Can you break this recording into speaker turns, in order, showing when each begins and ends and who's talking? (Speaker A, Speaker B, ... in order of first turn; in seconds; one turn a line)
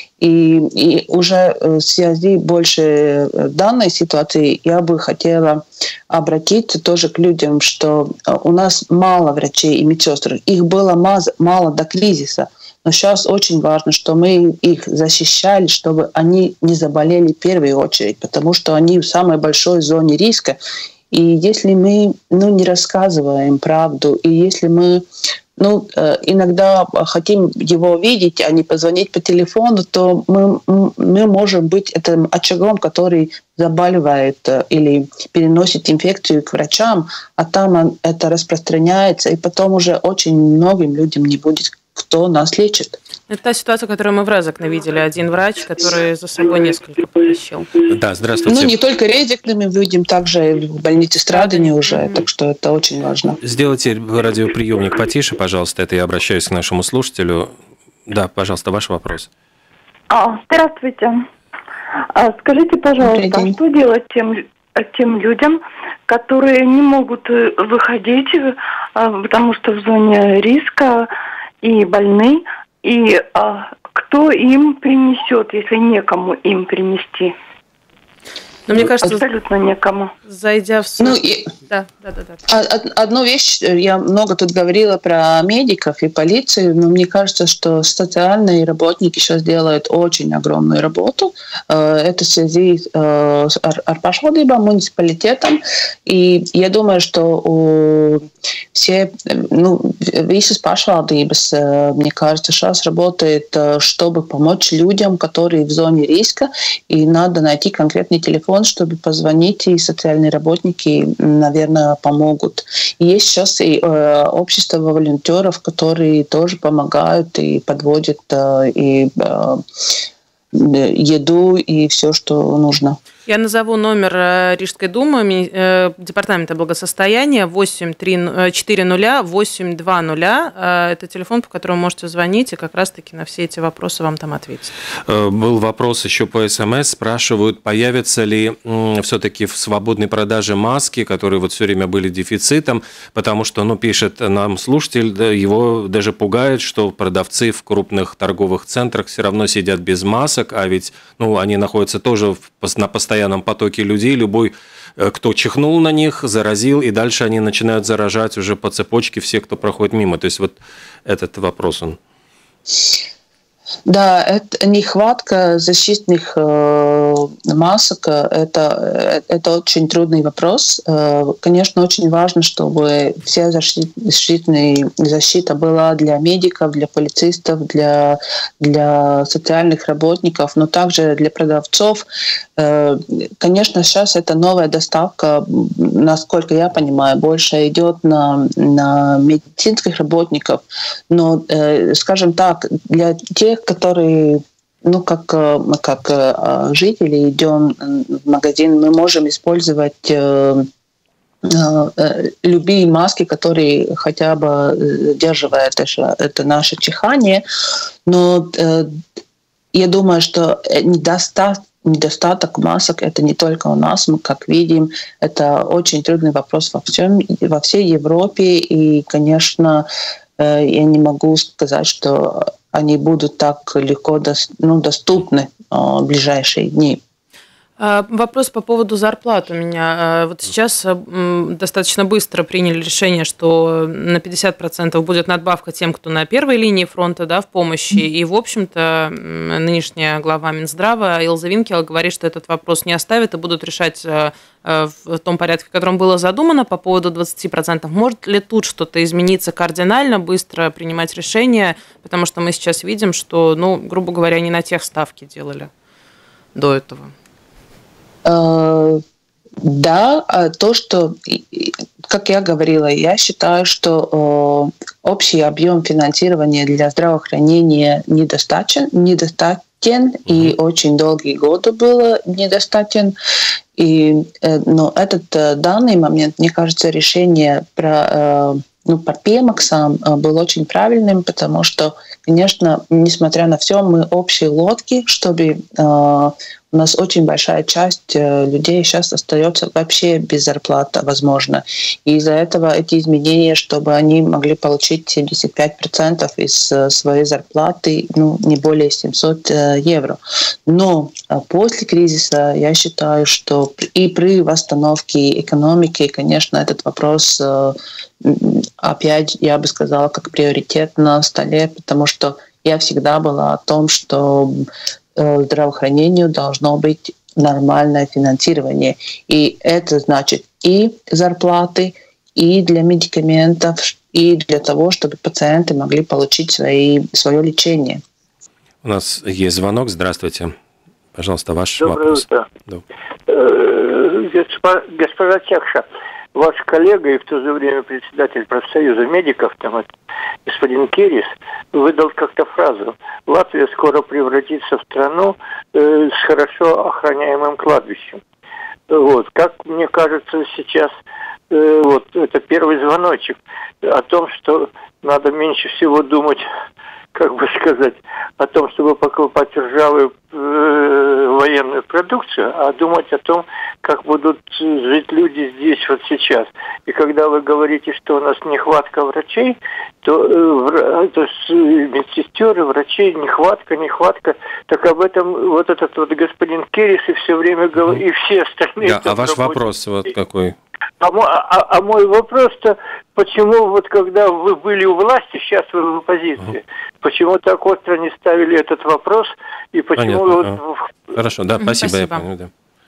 Speaker A: 0.2-20.6
Speaker A: 21.1-25.1
Speaker A: 25.6-43.0
Speaker B: 43.3-47.7
Speaker C: 47.9-48.7
Speaker A: 48.5-53.4
Speaker B: 51.3-52.2
Speaker C: 53.4-57.5
Speaker C: 58.1-59.3
Speaker D: 60.1-61.3
Speaker D: 62.1-71.1
Speaker A: 63.0-63.5
Speaker D: 71.6-77.3
Speaker B: 78.7-79.2
Speaker D: 78.8-80.1
Speaker B: 80.2-82.5
Speaker A: 81.0-81.5
Speaker A: 82.5-119.6
Speaker A: 120.5-123.0
Speaker B: 123.2-134.7
Speaker C: 135.1-162.0
Speaker A: 163.9-182.0
Speaker A: 182.6-200.7
Speaker A: 201.4-207.4
Speaker A: 208.1-209.0
Speaker A: 209.7-219.9
Speaker A: 220.4-227.0
Speaker B: 227.8-255.7
Speaker B: 256.5-257.1
Speaker A: 258.2-259.0
Speaker A: 259.6-273.1
Speaker C: 270.3-270.5
Speaker A: 273.8-328.0
Speaker C: 328.8-330.5
Speaker C: 331.1-332.8
Speaker E: 331.8-332.5
Speaker E: 333.3-339.9
Speaker E: 340.4-348.2
Speaker E: 348.9-350.9
Speaker E: 351.5-356.4
Speaker E: 357.1-379.6
Speaker C: 378.8-380.6
Speaker E: 381.0-390.9
Speaker C: 389.9-390.6
Speaker C: 391.1-392.5
Speaker B: 391.6-392.2